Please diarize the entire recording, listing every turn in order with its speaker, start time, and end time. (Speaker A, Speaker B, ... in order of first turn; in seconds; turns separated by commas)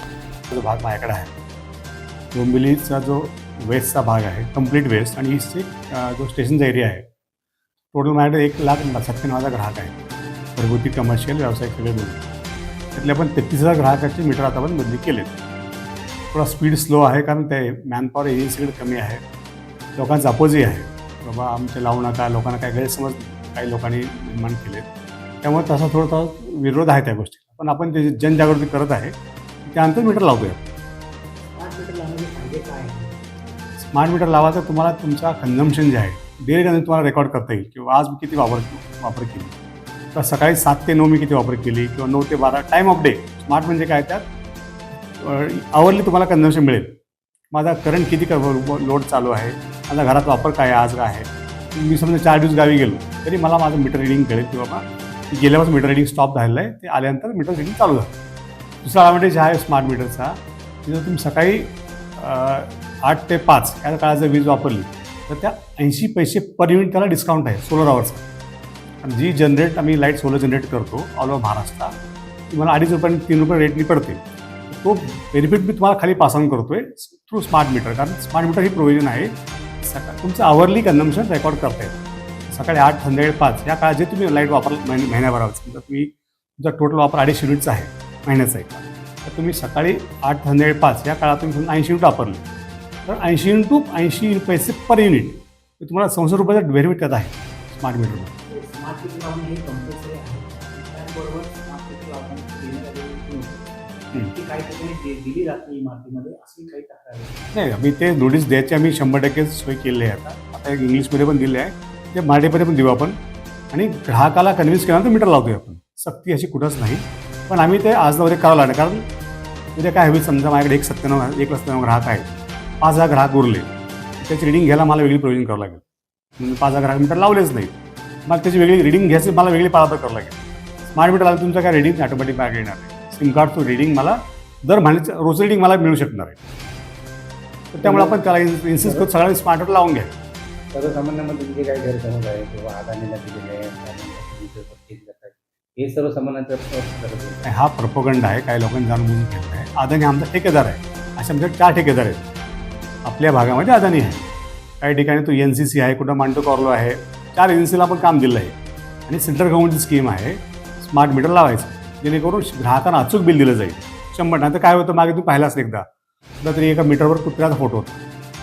Speaker A: 0.5-1.3, Speaker A: 2.3-7.0, Speaker A: 7.9-9.9, Speaker A: 10.6-12.2, Speaker A: 12.9-15.3, Speaker A: 16.3-19.2, Speaker A: 20.0-24.9, Speaker A: 25.4-29.1, Speaker A: 29.7-30.7, Speaker B: 31.4-33.2, Speaker A: 33.8-39.5, Speaker A: 40.1-44.2, Speaker A: 45.2-46.9, Speaker A: 47.5-58.1, Speaker A: 58.8-68.2, Speaker A: 69.0-71.9, Speaker A: 72.5-82.0, Speaker A: 82.5-92.4, Speaker A: 93.0-98.3, Speaker B: 98.5-107.4, Speaker A: 107.5-113.2, Speaker A: 113.7-119.0, Speaker A: 119.8-122.3, Speaker A: 122.8-125.8, Speaker A: 126.4-127.7, Speaker A: 128.3-130.3, Speaker A: 130.9-136.4, Speaker A: 137.7-140.1, Speaker C: 137.8-139.1, Speaker C: 140.7-147.4, Speaker A: 147.4-152.2, Speaker A: 153.0-154.2, Speaker A: 154.8-158.5, Speaker A: 159.1-165.8, Speaker A: 166.4-168.0